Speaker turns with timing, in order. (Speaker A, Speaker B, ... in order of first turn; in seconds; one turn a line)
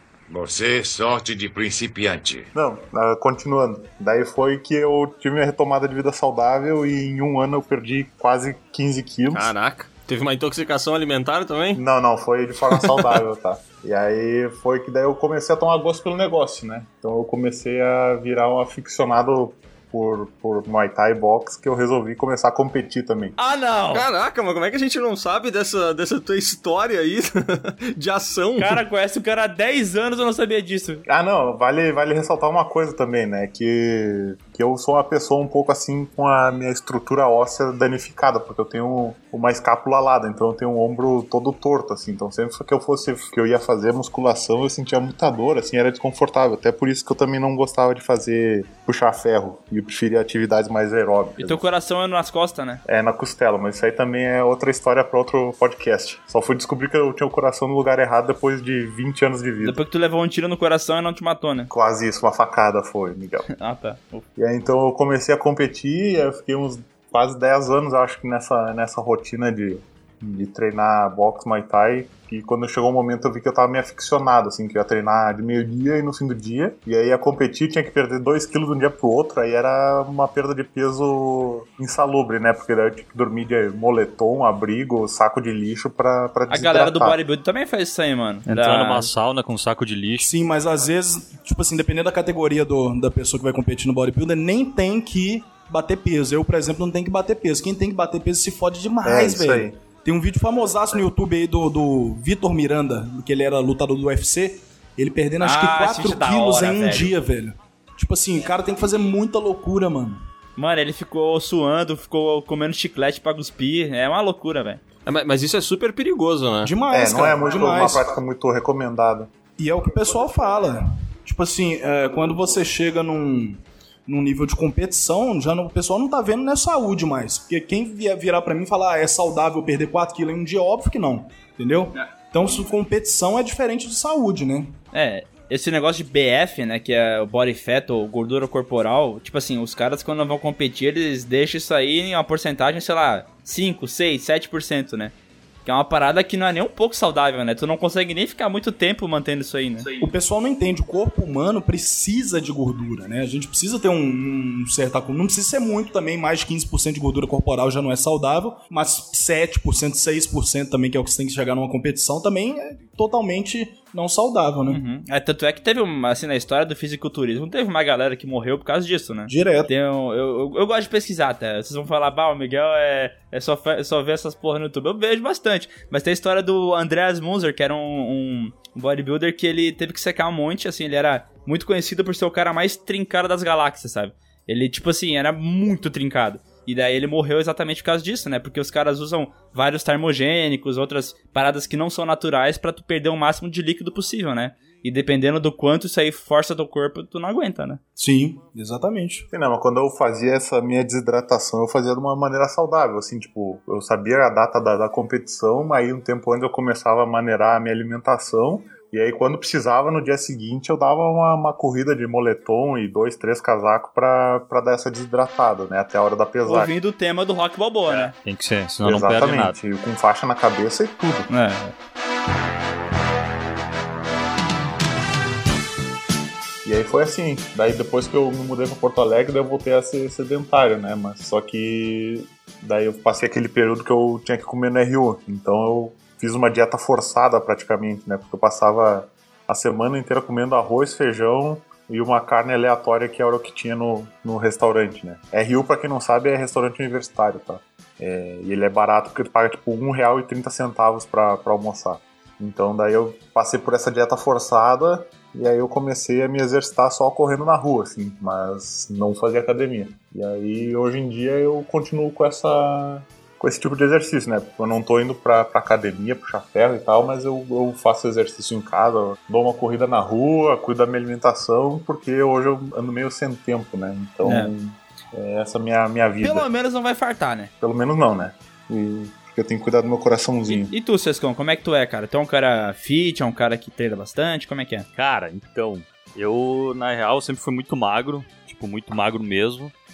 Speaker A: 0.3-2.5
Speaker B: 2.5-9.5
Speaker C: 9.3-11.8
Speaker B: 11.7-23.4
Speaker D: 23.4-24.0
Speaker C: 23.9-28.8
Speaker D: 28.6-31.0
Speaker B: 31.1-51.6
Speaker D: 51.4-52.8
Speaker B: 52.8-59.8
Speaker D: 59.6-61.7
Speaker B: 61.7-63.5
Speaker D: 63.5-64.2
Speaker B: 64.4-87.2
Speaker D: 86.5-89.1
Speaker E: 88.5-90.3
Speaker F: 90.2-110.2
Speaker B: 99.0-99.8
Speaker D: 105.4-107.1
Speaker D: 110.6-114.8
Speaker C: 115.0-116.7
Speaker F: 116.6-118.0
Speaker B: 116.9-119.3
Speaker F: 119.6-134.8
Speaker D: 134.9-145.1
Speaker D: 145.6-149.9
Speaker F: 150.0-164.8
Speaker D: 164.7-197.8
Speaker F: 169.3-169.7
Speaker F: 197.9-199.2
Speaker B: 199.3-216.7
Speaker D: 216.4-218.1
Speaker E: 218.1-219.5
Speaker B: 218.8-221.3
Speaker D: 221.3-221.7
Speaker B: 226.6-276.5
Speaker D: 274.2-274.5
Speaker D: 276.2-277.5
Speaker B: 277.6-280.7
Speaker D: 280.5-284.9
Speaker E: 284.9-289.7